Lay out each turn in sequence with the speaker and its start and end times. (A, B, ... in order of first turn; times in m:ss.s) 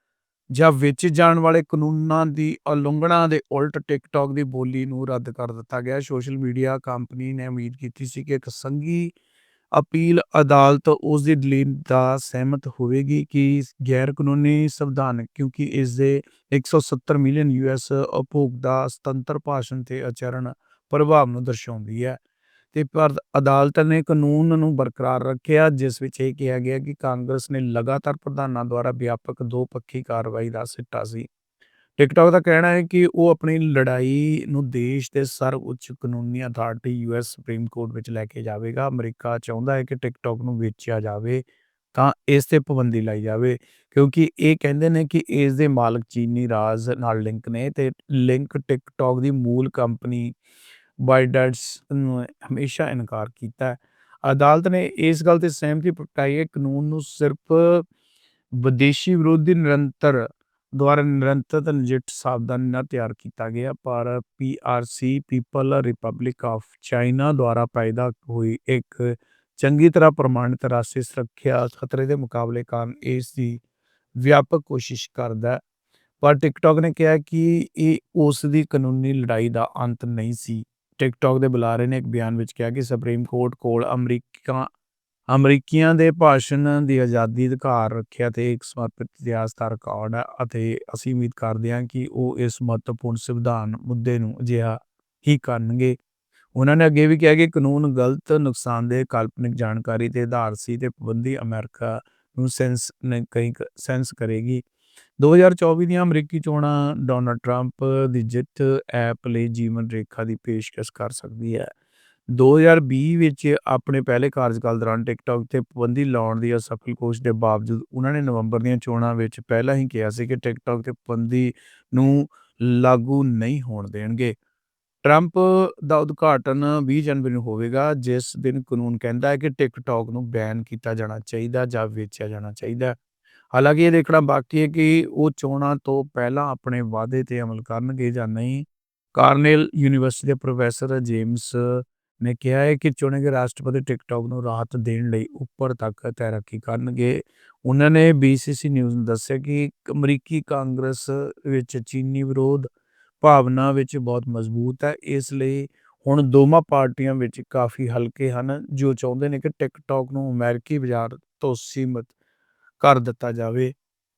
0:00.5-0:09.1 A
0:09.7-0:22.2 A
0:22.7-0:31.3 A
0:32.0-0:50.4 A
0:51.0-0:57.8 A
0:58.6-1:13.6 A
1:14.2-1:15.6 A
1:16.2-1:24.7 A
1:25.3-1:36.0 A
1:36.5-1:44.6 A
1:45.2-1:51.7 A
1:52.3-2:04.3 A
2:05.0-2:13.0 A
2:13.5-2:32.7 A
2:33.2-2:42.1 A
2:42.8-2:43.7 A